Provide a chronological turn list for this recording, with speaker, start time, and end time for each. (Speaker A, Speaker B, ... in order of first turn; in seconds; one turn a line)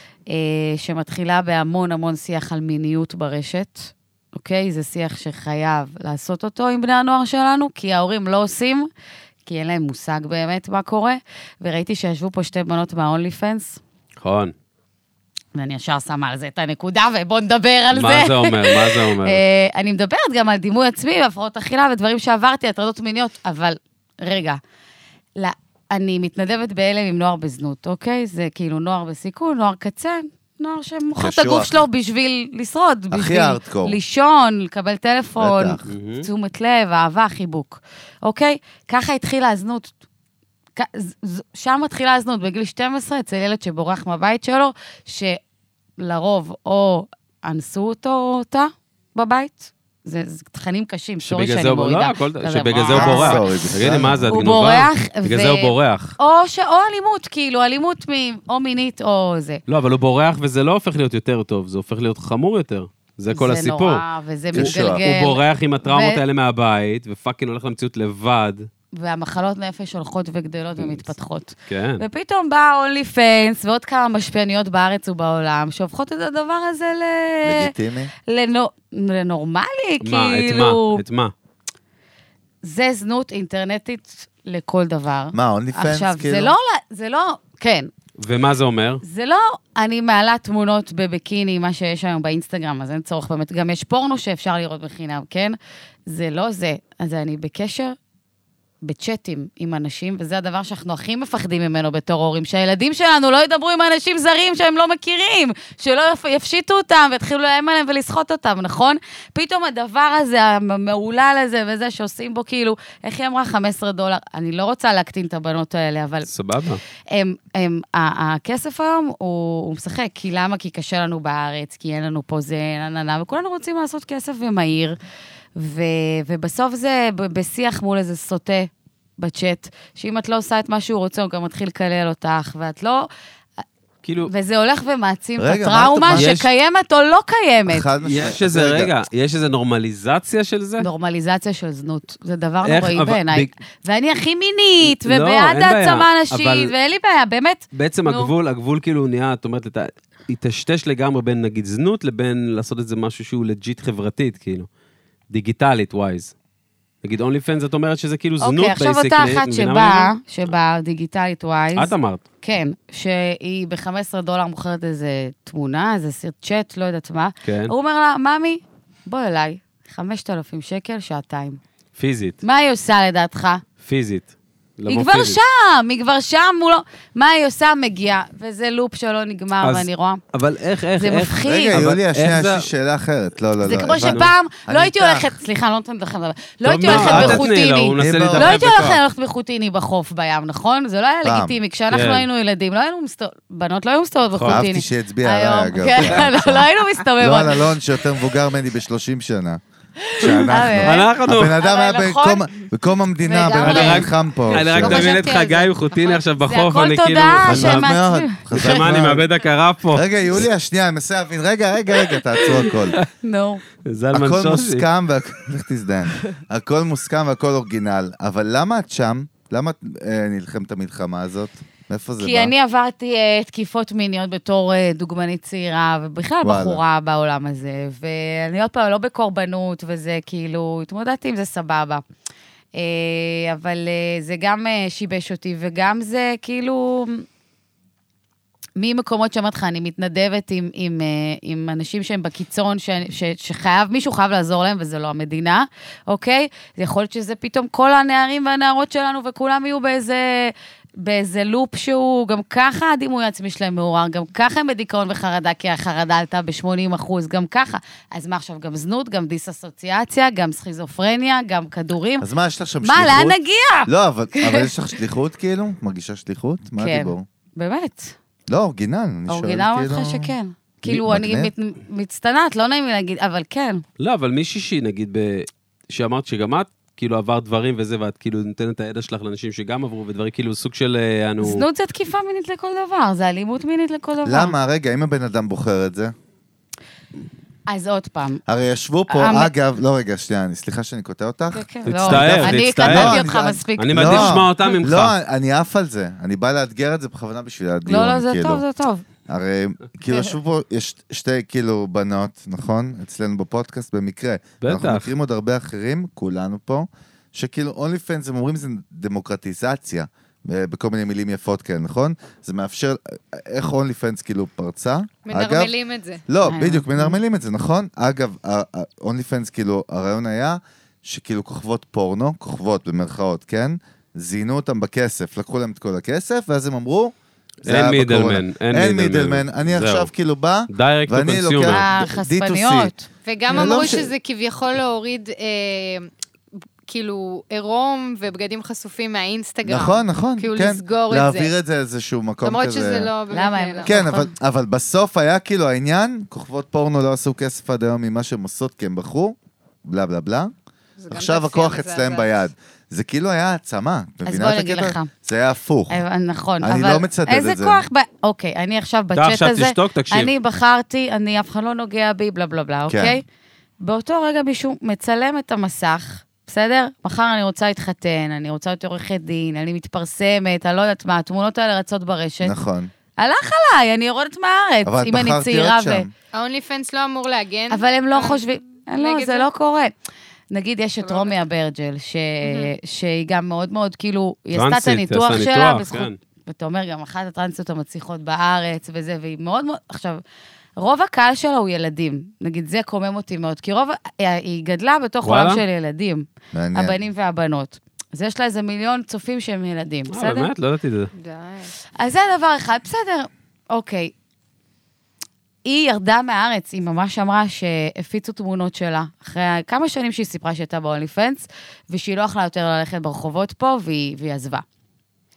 Speaker A: 0.3-8.9
Speaker A: 9.4-13.8
Speaker B: 14.2-14.5
Speaker A: 15.5-24.6
Speaker B: 17.9-19.4
Speaker A: 25.4-39.9
Speaker C: 31.1-31.8
Speaker C: 33.1-34.0
Speaker C: 35.4-35.8
Speaker B: 35.9-36.3
Speaker A: 40.8-45.4
Speaker A: 46.0-59.6
Speaker B: 51.2-56.2
Speaker C: 52.8-54.5
Speaker B: 59.7-68.7
Speaker A: 63.3-66.2
Speaker C: 64.5-65.0
Speaker A: 68.9-77.7
Speaker B: 70.8-71.0
Speaker B: 71.7-72.0
Speaker C: 77.4-78.1
Speaker A: 78.3-81.0
Speaker B: 80.0-81.3
Speaker A: 82.6-87.9
Speaker C: 85.3-86.5
Speaker B: 88.2-89.0
Speaker A: 89.0-98.0
Speaker A: 98.8-116.3
Speaker B: 116.2-116.8
Speaker A: 117.1-125.0
Speaker A: 125.5-133.1
Speaker B: 134.0-134.3
Speaker A: 134.2-137.9
Speaker C: 135.4-136.3
Speaker B: 136.1-136.5
Speaker C: 137.7-138.9
Speaker B: 138.0-140.9
Speaker A: 140.8-148.3
Speaker B: 142.6-143.5
Speaker B: 144.8-146.7
Speaker B: 147.7-154.7
Speaker B: 155.3-156.3
Speaker B: 157.0-160.1
Speaker A: 158.4-171.6
Speaker B: 161.7-162.2
Speaker B: 167.4-167.7
Speaker B: 172.0-172.4
Speaker A: 172.4-173.6
Speaker B: 173.8-175.4
Speaker A: 174.9-180.2
Speaker B: 179.6-182.7
Speaker A: 181.0-181.8
Speaker C: 181.4-185.4
Speaker A: 183.6-197.8
Speaker B: 183.7-184.3
Speaker B: 186.6-189.0
Speaker C: 186.8-188.9
Speaker C: 191.2-191.6
Speaker B: 191.9-192.3
Speaker B: 194.3-194.7
Speaker C: 194.5-199.6
Speaker C: 200.1-205.2
Speaker A: 200.2-202.5
Speaker B: 200.8-201.6
Speaker A: 203.2-204.1
Speaker B: 203.6-207.9
Speaker D: 204.8-206.3
Speaker A: 206.4-208.8
Speaker C: 207.4-209.3
Speaker B: 208.5-210.4
Speaker C: 209.9-212.9
Speaker A: 213.1-213.6
Speaker B: 213.8-214.9
Speaker C: 214.1-222.5
Speaker A: 222.2-232.0
Speaker C: 226.4-226.8
Speaker A: 232.7-237.2
Speaker A: 238.8-262.2
Speaker C: 262.2-267.3
Speaker A: 262.8-264.7
Speaker A: 266.8-268.1
Speaker C: 268.5-270.3
Speaker A: 269.3-273.8
Speaker C: 270.8-271.5
Speaker B: 274.0-281.6
Speaker A: 281.4-284.5
Speaker C: 284.2-286.1
Speaker A: 287.7-288.4
Speaker C: 288.5-298.6
Speaker A: 289.1-289.5
Speaker A: 291.5-294.4
Speaker B: 291.9-295.1
Speaker A: 297.9-299.0
Speaker C: 299.3-315.7
Speaker B: 304.6-305.1
Speaker D: 315.2-316.2
Speaker C: 316.3-327.1
Speaker A: 316.4-317.2
Speaker B: 327.6-330.1
Speaker C: 327.6-332.9
Speaker B: 330.7-331.8
Speaker A: 331.6-333.9
Speaker D: 333.2-336.1
Speaker C: 333.5-334.1
Speaker D: 336.9-341.5
Speaker C: 339.6-343.1
Speaker D: 342.4-343.9
Speaker A: 343.3-344.3
Speaker C: 343.8-350.5
Speaker D: 351.0-352.3
Speaker C: 351.1-356.0
Speaker A: 354.2-355.1
Speaker A: 355.9-363.2
Speaker C: 356.6-357.8
Speaker B: 359.1-360.3
Speaker C: 362.9-363.2
Speaker A: 363.8-372.5
Speaker C: 372.4-372.9
Speaker A: 373.2-376.1
Speaker C: 374.8-376.1
Speaker D: 376.3-379.5
Speaker A: 377.7-379.9
Speaker A: 380.5-390.2
Speaker D: 381.0-381.4
Speaker D: 382.4-382.7
Speaker B: 384.5-386.2
Speaker A: 390.8-400.5
Speaker B: 395.2-395.6
Speaker C: 396.5-397.0
Speaker B: 400.1-401.1
Speaker D: 401.1-401.7
Speaker A: 402.0-404.1
Speaker A: 405.6-414.6